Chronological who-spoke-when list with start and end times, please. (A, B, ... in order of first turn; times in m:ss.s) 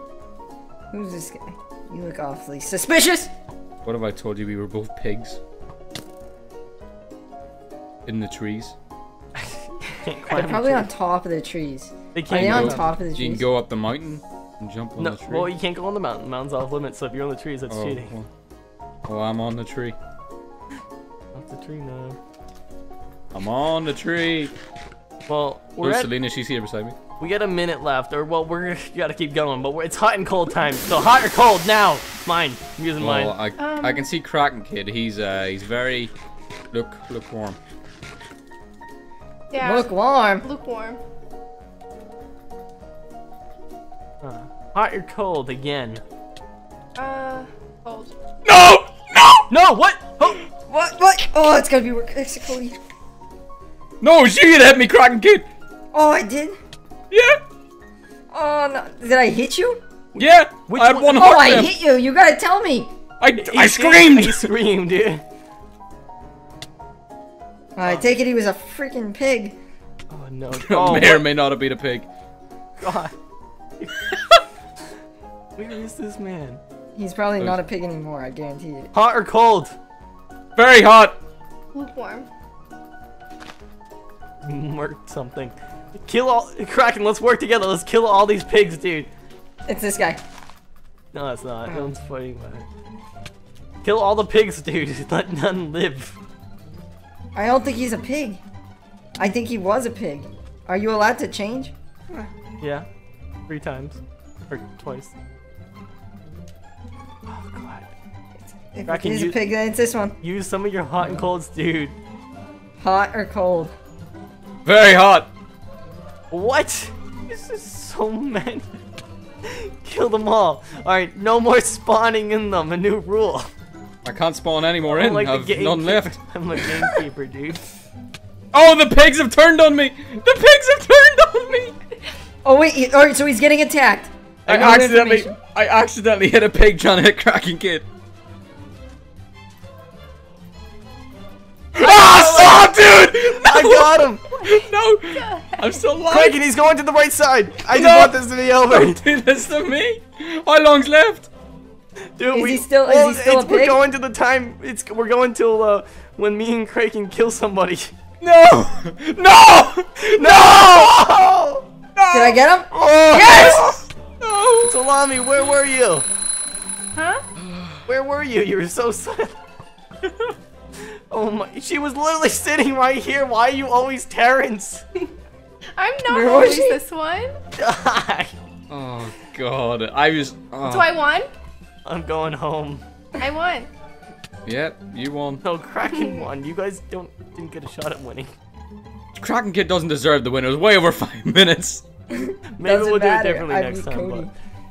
0:00.9-0:03.3 A
0:03.8-0:05.4 B
0:08.0-0:08.8 B
0:09.3-0:10.9 C
0:10.3-0:13.4 A
0:12.1-0:12.9 C
0:12.3-0:15.5 B
0:15.0-0:18.1 C
0:17.7-0:18.3 B
0:19.1-0:20.0 B
0:21.3-0:22.2 C
0:23.3-0:24.5 B
0:25.3-0:26.1 C
0:25.8-0:27.0 B
0:27.2-0:33.4 C
0:33.0-0:36.1 B
0:33.6-0:34.0 D
0:36.7-0:37.6 B
0:39.5-0:41.0 D
0:39.6-0:40.4 A
0:44.2-0:46.0 C
0:47.0-0:48.1 D
0:48.4-0:49.5 B
0:49.5-0:50.4 C
0:50.7-0:52.8 A
0:54.0-0:55.5 B
0:55.9-0:56.6 A
0:57.1-0:57.4 B
0:58.3-0:59.8 A
1:00.1-1:01.5 C
1:00.2-1:01.7 B
1:01.1-1:02.9 A
1:03.2-1:04.5 B
1:03.4-1:05.2 C
1:07.8-1:09.6 A
1:10.1-1:11.3 C
1:10.6-1:12.1 B
1:12.8-1:13.1 C
1:13.8-1:14.0 C
1:15.6-1:16.6 C
1:16.9-1:18.9 A
1:18.9-1:19.7 C
1:20.6-1:21.2 B
1:21.7-1:22.3 D
1:24.4-1:29.1 C
1:29.6-1:30.2 A
1:31.1-1:32.7 C
1:33.8-1:36.2 C
1:37.3-1:38.4 A
1:39.2-1:41.7 A
1:42.6-1:42.9 C
1:43.5-1:45.1 C
1:47.2-1:47.9 C
1:48.5-1:50.2 A
1:48.8-1:49.4 C
1:50.2-1:52.0 C
1:52.8-1:53.7 A
1:54.6-1:55.3 B
1:56.3-1:58.7 C
1:59.4-2:03.5 C
2:04.0-2:06.2 B
2:04.8-2:07.6 C
2:08.5-2:11.7 B
2:12.4-2:15.4 A
2:14.5-2:17.9 B
2:21.7-2:26.4 B
2:21.8-2:24.2 C
2:24.3-2:25.8 D
2:26.1-2:29.0 C
2:27.7-2:31.3 B
2:32.2-2:37.9 C
2:32.3-2:33.8 A
2:38.2-2:41.2 B
2:40.0-2:41.6 C
2:42.0-2:44.7 B
2:42.1-2:43.7 A
2:43.0-2:43.6 C
2:44.6-2:46.0 C
2:47.0-2:47.2 D
2:47.4-2:47.7 B
2:47.9-2:49.4 C
2:50.0-2:50.3 B
2:50.8-2:54.8 C
2:55.8-2:57.4 D
2:56.1-2:56.8 A
2:57.6-2:58.3 C
2:58.7-3:01.0 B
3:00.6-3:01.3 D
3:01.8-3:02.8 C
3:03.2-3:03.7 D
3:04.4-3:05.4 B
3:05.4-3:08.3 C
3:05.9-3:06.2 D
3:09.2-3:11.8 B
3:12.1-3:14.3 A
3:12.5-3:14.3 C